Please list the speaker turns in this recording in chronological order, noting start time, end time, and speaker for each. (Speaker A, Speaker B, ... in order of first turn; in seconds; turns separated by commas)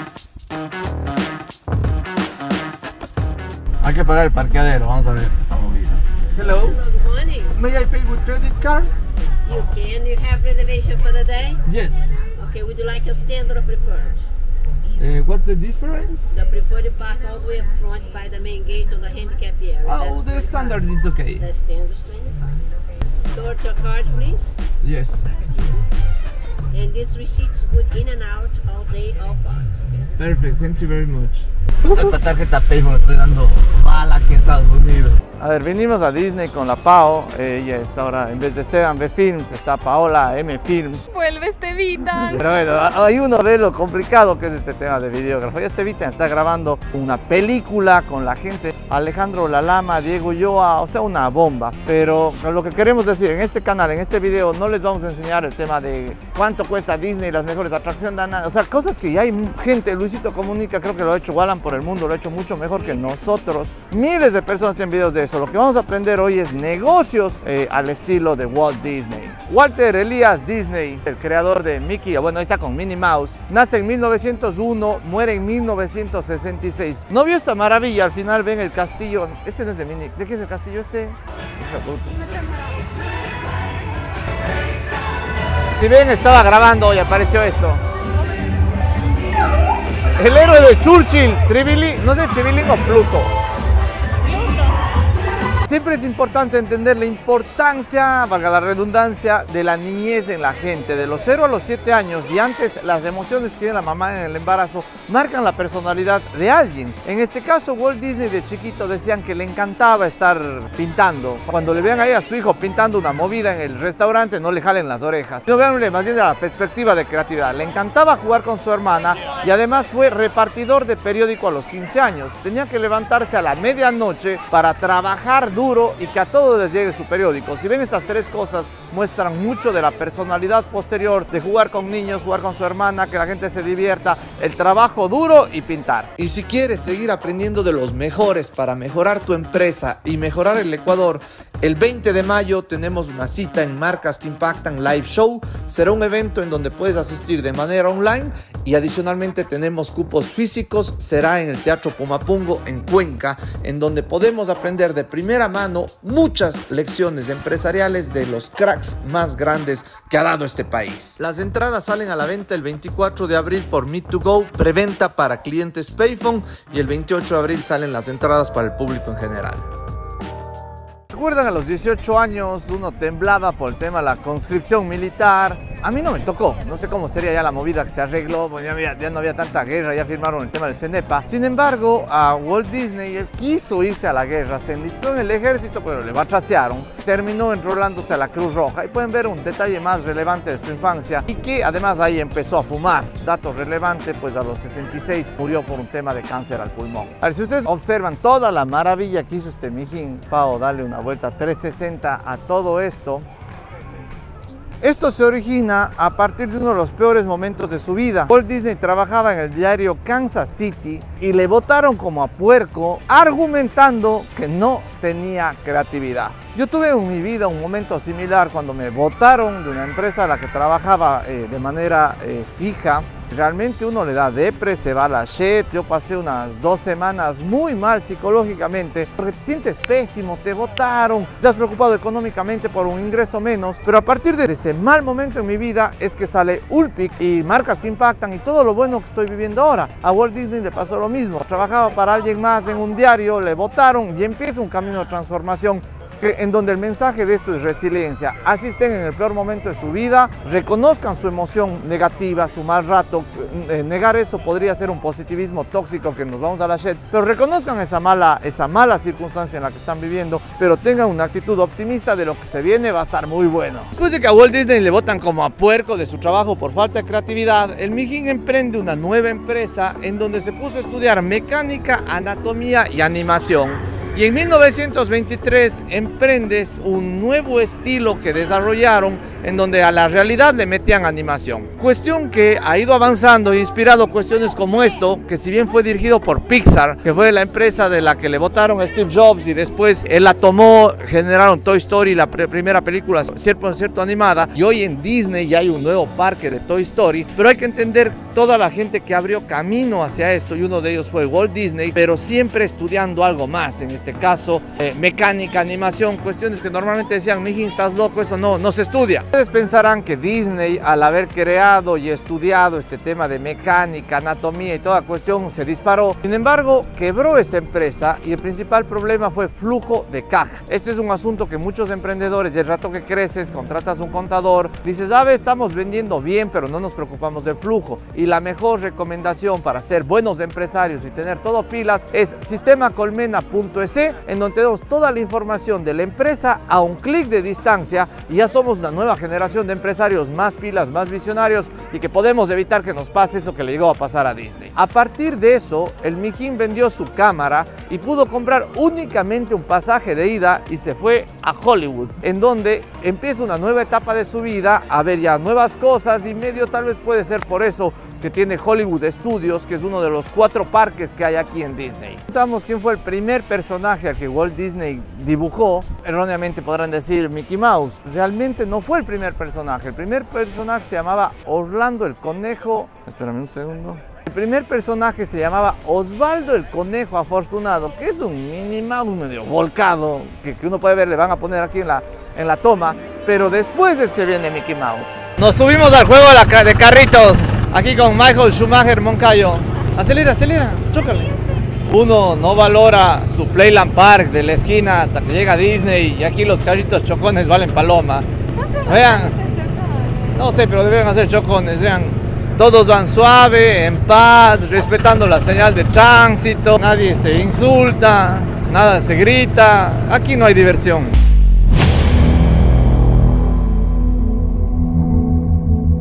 Speaker A: 3.8-6.8, Speaker B: 6.4-7.6, Speaker A: 7.5-8.9, Speaker B: 9.4-11.6, Speaker A: 11.7-12.0, Speaker B: 12.3-14.2, Speaker A: 15.0-16.3, Speaker B: 16.3-24.6, Speaker A: 19.8-21.4, Speaker A: 24.8-25.2, Speaker B: 25.5-25.8, Speaker B: 26.7-30.1, Speaker A: 30.2-41.1, Speaker C: 41.1-42.4, Speaker A: 42.3-82.2, Speaker A: 85.8-87.8, Speaker A: 90.2-93.3, Speaker C: 94.3-94.6, Speaker A: 95.6-169.7, Speaker A: 171.1-203.3, Speaker A: 204.8-391.3, Speaker A: 391.9-398.2, Speaker C: 398.5-400.4, Speaker A: 398.8-399.4, Speaker A: 400.3-411.2